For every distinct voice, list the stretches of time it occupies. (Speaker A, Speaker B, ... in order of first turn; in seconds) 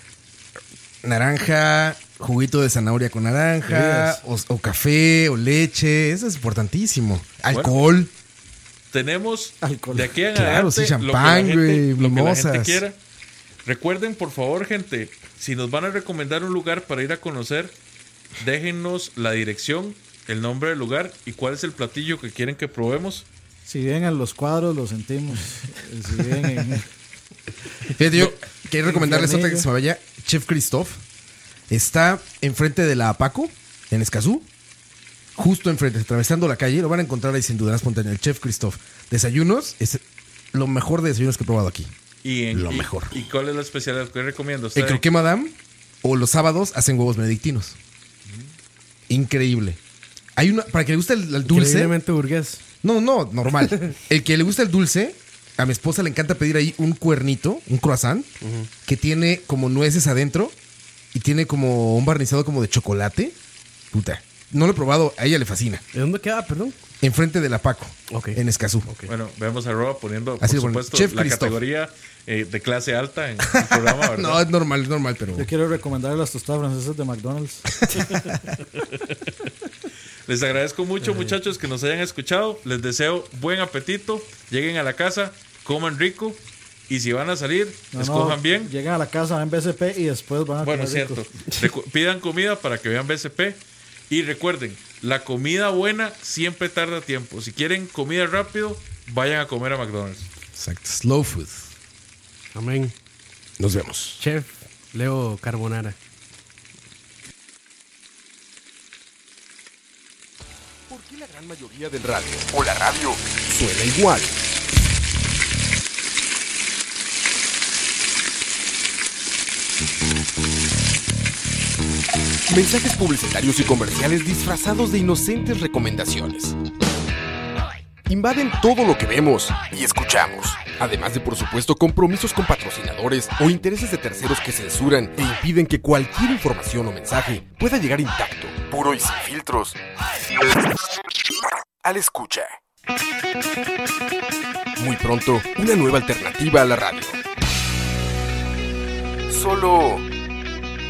Speaker A: 1.0-8.1, 10.3-12.8, 27.9-31.0, 31.7-34.5, 35.4-40.0, 40.5-41.9, 42.5-43.2, 44.7-47.8, 49.1-49.8, 50.4-51.9, 52.8-58.3, 58.8-60.5, 61.1-63.4, 63.9-65.8, 67.0-68.9, 70.4-71.6, 73.5-75.5, 77.8-78.4, 100.5-101.7, 103.6-104.2
Speaker B: 3.7-4.1, 9.6-10.2, 23.7-26.9, 28.8-29.7, 75.3-77.7, 87.9-91.2
Speaker C: 7.5-7.7, 8.9-13.0, 13.6-17.7, 18.4-23.2, 42.2-45.0, 69.1-74.4, 77.9-79.0, 80.3-88.7, 90.6-100.3
Speaker D: 51.5-52.6, 58.4-58.7, 65.9-66.8, 68.1-69.1, 81.0-81.3, 102.5-102.9, 104.2-106.0
Speaker E: 110.9-114.4, 122.5-126.5, 128.1-139.8, 141.8-142.6, 144.8-147.2, 149.3-150.1